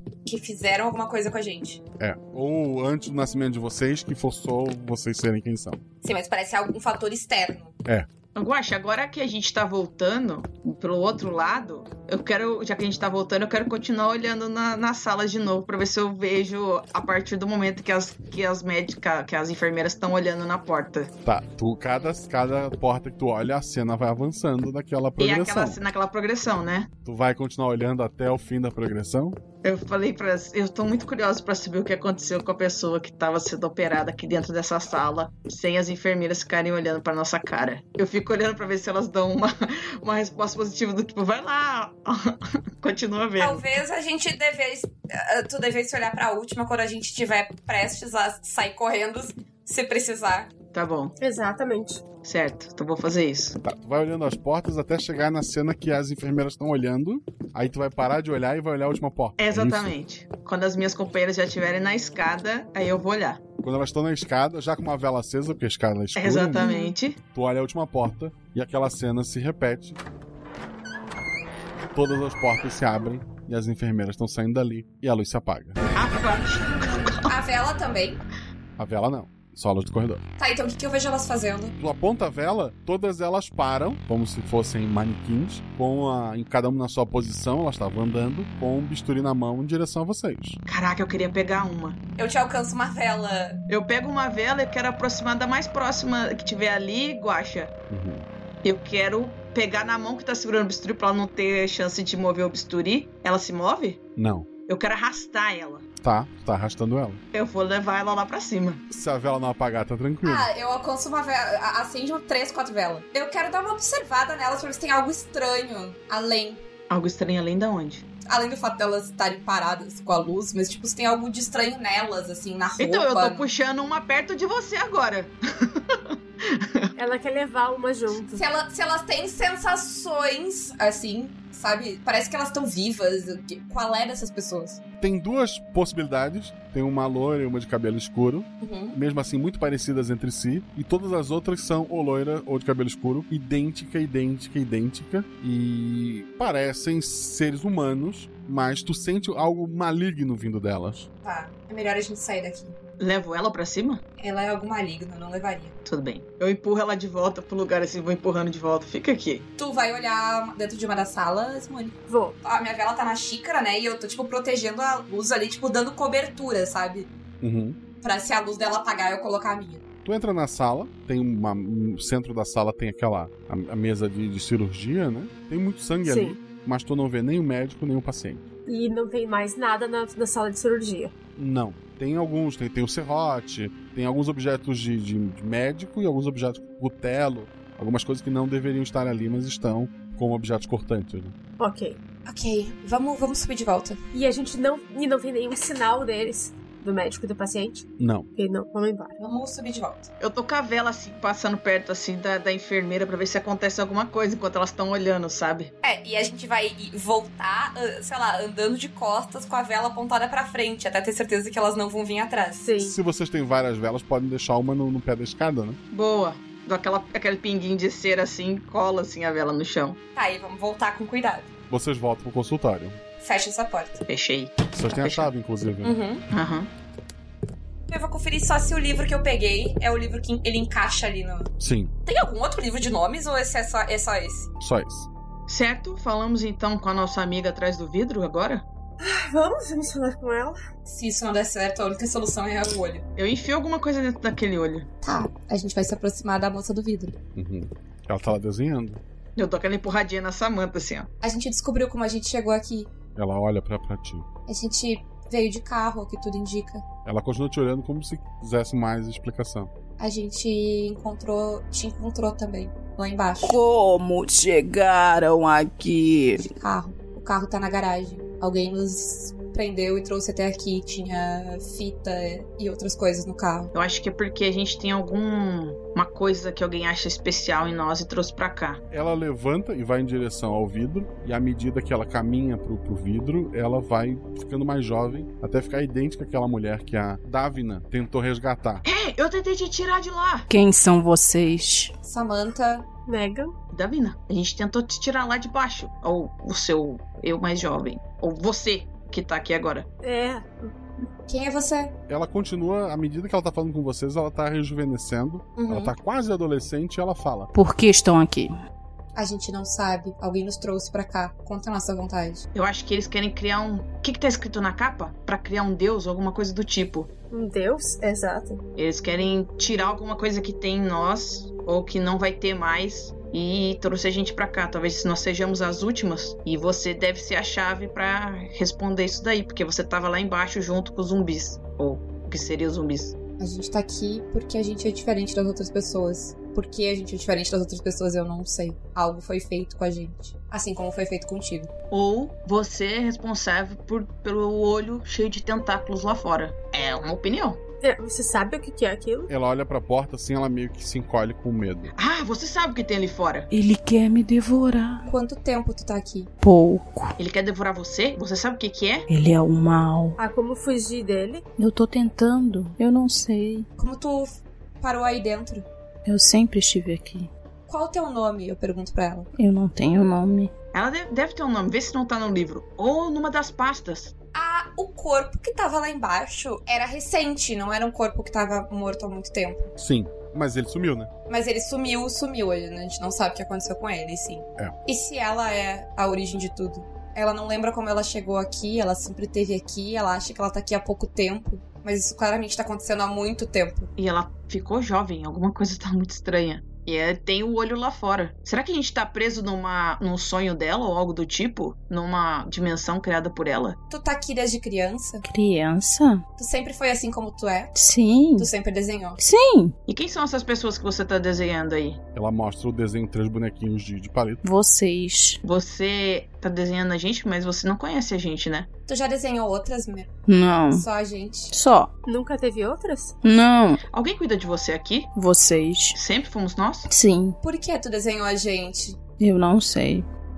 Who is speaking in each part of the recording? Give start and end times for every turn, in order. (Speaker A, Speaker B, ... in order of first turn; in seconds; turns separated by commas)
Speaker A: 0.2-1.8, Speaker B: 2.0-5.8, Speaker A: 6.0-7.7, Speaker C: 8.3-21.1, Speaker B: 21.2-25.8, Speaker C: 25.2-26.9, Speaker B: 27.0-29.4, Speaker C: 29.6-43.8, Speaker A: 43.4-50.5, Speaker C: 50.7-51.1, Speaker D: 51.2-52.0, Speaker C: 52.2-53.6, Speaker B: 53.6-59.9, Speaker C: 59.4-63.4, Speaker B: 63.6-66.7, Speaker C: 66.2-67.2, Speaker A: 66.6-66.9, Speaker B: 67.3-70.0, Speaker B: 71.9-75.8, Speaker C: 75.9-77.3, Speaker A: 77.3-78.2, Speaker B: 78.8-80.2, Speaker A: 80.4-81.7, Speaker B: 81.8-90.6, Speaker C: 90.7-92.0, Speaker A: 92.2-93.6, Speaker C: 93.7-97.7, Speaker B: 97.9-98.3, Speaker C: 98.6-104.0, Speaker B: 104.2-104.5, Speaker C: 104.7-105.8, Speaker B: 106.0-107.2, Speaker C: 107.3-108.8, Speaker B: 108.9-110.5, Speaker A: 110.2-116.6, Speaker C: 116.9-118.0, Speaker A: 118.2-123.5, Speaker C: 122.8-126.9, Speaker D: 127.0-128.4, Speaker A: 128.3-134.8, Speaker B: 135.0-151.1, Speaker A: 138.6-138.9, Speaker A: 151.2-152.8, Speaker C: 153.0-154.0, Speaker A: 154.2-155.7, Speaker C: 155.8-159.5, Speaker A: 159.6-167.1, Speaker D: 162.1-162.4, Speaker B: 167.4-167.8, Speaker A: 168.0-169.8, Speaker B: 170.0-178.4, Speaker D: 176.0-176.4, Speaker D: 178.7-181.1, Speaker B: 181.4-191.3, Speaker D: 191.6-192.0, Speaker A: 192.2-194.0, Speaker D: 194.1-199.1, Speaker B: 198.0-198.3, Speaker A: 199.2-200.1, Speaker C: 200.2-205.7, Speaker A: 205.8-212.7, Speaker D: 212.6-213.0, Speaker B: 212.8-215.8, Speaker C: 215.9-220.0, Speaker A: 220.1-221.5, Speaker B: 221.7-223.0, Speaker A: 223.2-224.0, Speaker C: 224.1-225.2, Speaker B: 224.7-226.0, Speaker A: 225.8-226.2, Speaker C: 226.3-226.7, Speaker A: 227.9-231.5, Speaker B: 231.6-231.9, Speaker A: 232.1-234.5, Speaker B: 234.6-235.1, Speaker C: 235.5-238.6, Speaker D: 239.0-240.6, Speaker A: 240.8-243.0, Speaker C: 243.2-244.9, Speaker A: 245.0-247.2, Speaker B: 247.3-249.0, Speaker C: 249.4-251.1, Speaker A: 251.2-252.9, Speaker B: 253.2-254.3, Speaker A: 254.5-256.8, Speaker B: 257.0-259.7, Speaker A: 260.0-263.6, Speaker E: 263.4-266.4, Speaker A: 266.4-273.7, Speaker C: 273.7-278.8, Speaker B: 278.9-288.8, Speaker C: 288.8-290.5, Speaker E: 290.5-291.9, Speaker A: 292.0-292.9, Speaker D: 293.1-293.5, Speaker C: 293.7-299.9, Speaker D: 300.0-300.7, Speaker A: 301.3-301.9, Speaker B: 302.1-307.5, Speaker A: 305.6-305.9, Speaker E: 307.5-308.5, Speaker A: 309.1-312.4, Speaker C: 312.5-317.1, Speaker D: 317.3-318.6, Speaker C: 318.8-333.1, Speaker A: 333.4-341.7, Speaker C: 341.9-347.6, Speaker D: 347.8-349.3, Speaker B: 349.3-351.9, Speaker C: 351.9-353.5, Speaker E: 353.5-355.1, Speaker A: 355.0-356.3, Speaker E: 356.4-357.1, Speaker C: 357.2-359.0, Speaker E: 359.1-360.2, Speaker D: 360.2-361.4, Speaker E: 361.6-363.7, Speaker A: 363.8-365.6, Speaker E: 366.0-367.3, Speaker A: 367.7-369.3, Speaker E: 369.4-370.5, Speaker C: 370.7-374.1, Speaker A: 374.3-379.7, Speaker B: 379.8-381.1, Speaker A: 381.3-393.9, Speaker C: 394.0-403.8, Speaker A: 403.9-405.2, Speaker E: 405.2-406.2, Speaker A: 406.4-407.7, Speaker E: 407.7-408.5, Speaker A: 408.4-409.2, Speaker E: 409.2-409.7, Speaker C: 409.9-412.0, Speaker B: 412.1-414.4, Speaker E: 414.4-415.4, Speaker C: 415.4-418.7, Speaker A: 418.9-420.1, Speaker E: 420.3-420.8, Speaker A: 420.7-421.5, Speaker E: 421.5-421.9, Speaker D: 422.1-423.1, Speaker E: 423.2-423.8, Speaker C: 423.9-425.1, Speaker E: 425.1-425.9, Speaker C: 425.9-426.9, Speaker E: 426.9-427.4, Speaker A: 427.4-429.0, Speaker E: 429.2-430.1